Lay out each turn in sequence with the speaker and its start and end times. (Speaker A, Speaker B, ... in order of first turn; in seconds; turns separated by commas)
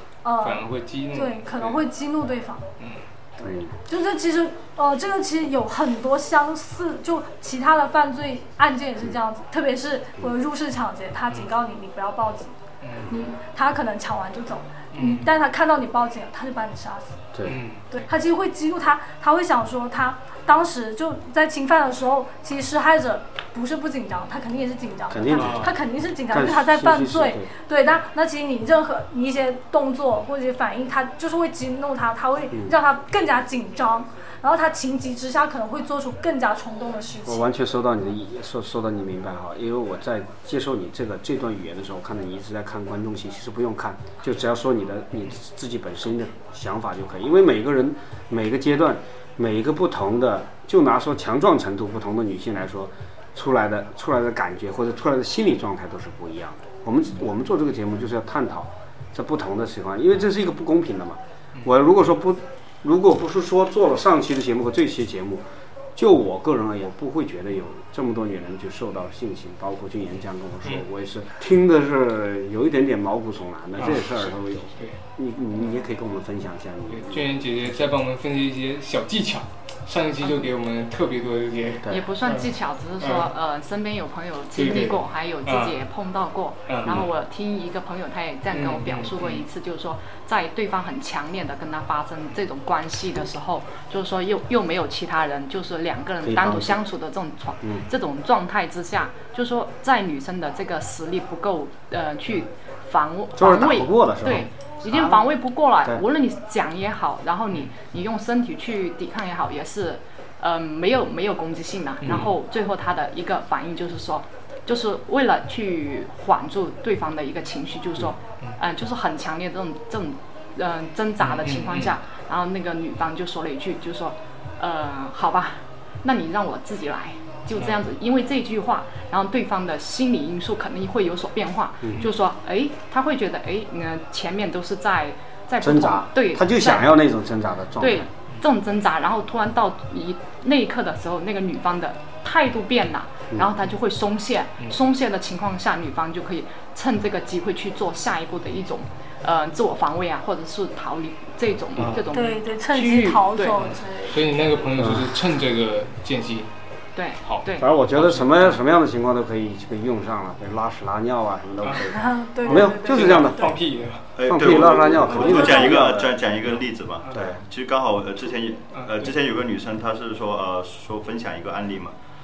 Speaker A: 0.2-2.7, Speaker B: 0.4-1.8, Speaker C: 3.4-3.7, Speaker A: 3.5-12.6, Speaker B: 12.8-13.1, Speaker A: 13.1-17.2, Speaker B: 14.9-15.3, Speaker C: 17.3-17.6, Speaker B: 17.4-17.9, Speaker A: 17.9-37.5, Speaker C: 25.1-25.8, Speaker B: 25.4-25.8, Speaker C: 26.3-27.5, Speaker C: 37.2-65.4, Speaker C: 66.0-77.4, Speaker B: 73.8-75.0, Speaker B: 76.9-83.3, Speaker D: 80.2-80.5, Speaker D: 81.9-137.0, Speaker B: 84.5-85.8, Speaker B: 86.7-87.1, Speaker B: 88.5-89.5, Speaker C: 96.2-96.8, Speaker C: 103.4-105.2, Speaker B: 112.0-112.3, Speaker B: 121.2-122.0, Speaker B: 127.5-127.8, Speaker C: 131.8-132.1, Speaker C: 135.6-138.1, Speaker D: 137.8-153.6, Speaker B: 151.8-152.1, Speaker A: 152.1-154.7, Speaker B: 153.6-156.5, Speaker C: 154.7-155.2, Speaker D: 156.9-157.7, Speaker B: 157.2-158.6, Speaker C: 157.6-163.5, Speaker B: 161.6-161.9, Speaker A: 161.9-163.6, Speaker B: 162.4-165.4, Speaker E: 164.2-171.9, Speaker C: 164.2-166.2, Speaker A: 165.1-165.8, Speaker B: 167.0-167.4, Speaker C: 167.1-167.4, Speaker B: 168.7-169.2